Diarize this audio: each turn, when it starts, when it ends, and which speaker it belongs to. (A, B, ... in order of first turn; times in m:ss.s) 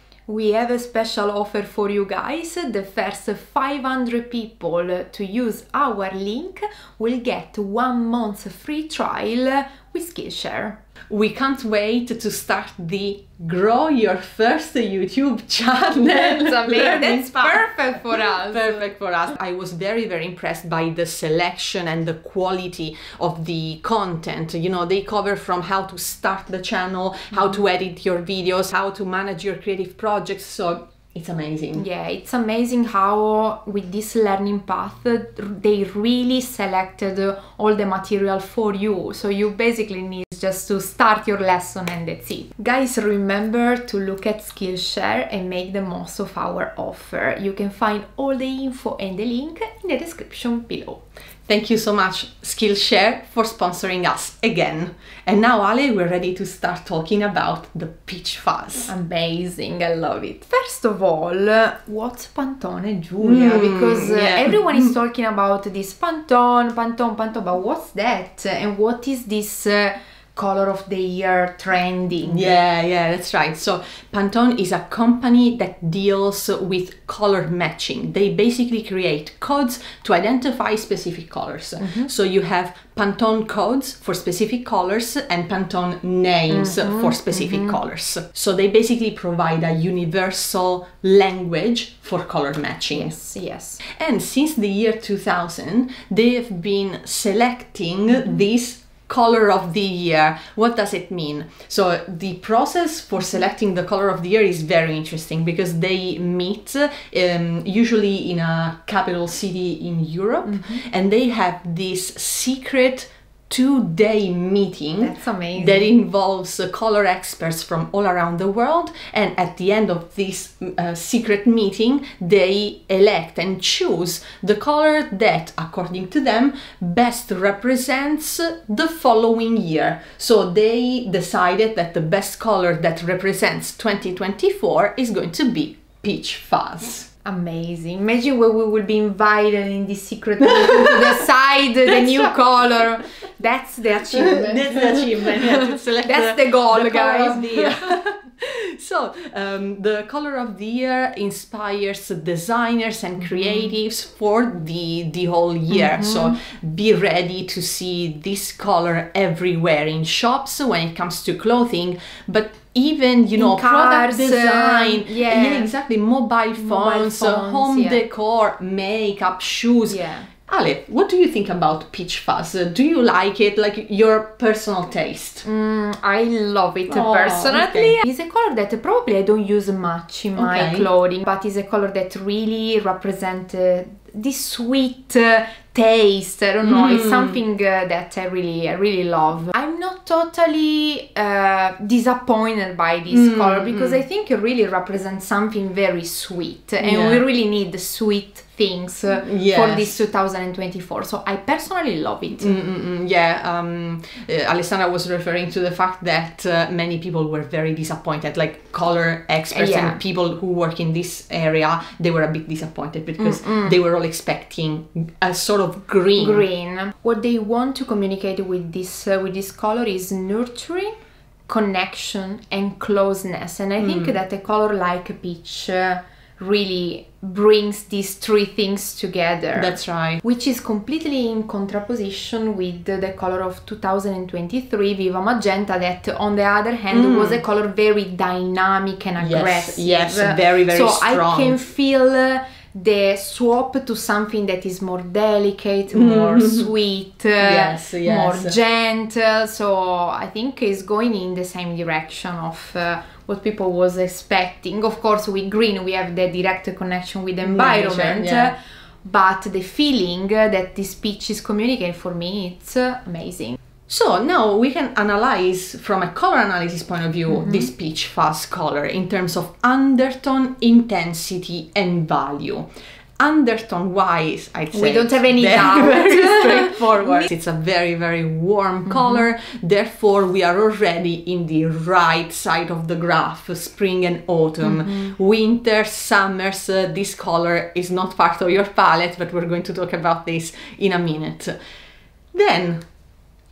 0:00.3-0:10.8 A
0:11.1-0:31.8 B
0:16.1-0:18.9 A
0:31.7-0:51.0 A
0:51.5-0:58.9 B
0:58.9-1:12.5 A
1:03.2-1:04.9 B
1:12.2-1:33.1 B
1:21.8-1:22.1 A
1:26.5-1:27.8 A
1:32.9-1:33.8 A
1:33.9-2:17.1 B
1:50.4-1:50.8 A
1:55.0-1:55.9 A
2:17.2-2:27.8 A
2:20.4-2:21.2 B
2:21.8-2:22.8 B
2:24.0-2:55.4 B
2:33.2-2:33.7 A
2:35.7-2:36.4 A
2:43.4-2:45.7 A
2:46.6-2:48.0 A
2:49.9-2:50.3 A
2:55.4-3:22.5 A
2:56.9-2:58.0 B
3:00.4-3:00.9 B
3:06.6-3:07.4 B
3:13.1-3:14.0 B
3:16.8-3:17.2 B
3:19.2-3:20.0 B
3:22.4-3:36.4 B
3:29.5-3:30.0 A
3:33.2-3:33.8 A
3:36.2-3:40.9 A
3:41.5-4:23.6 A
3:43.8-3:44.1 B
3:49.6-3:50.2 B
3:56.9-3:57.4 B
3:59.2-4:01.6 B
4:05.9-4:06.7 B
4:07.4-4:08.6 B
4:17.4-4:18.5 B
4:23.9-4:32.7 B
4:27.3-4:27.7 A
4:33.2-4:51.5 B
4:34.7-4:37.3 A
4:38.8-4:39.3 A
4:44.6-4:45.1 A
4:52.3-4:52.8 B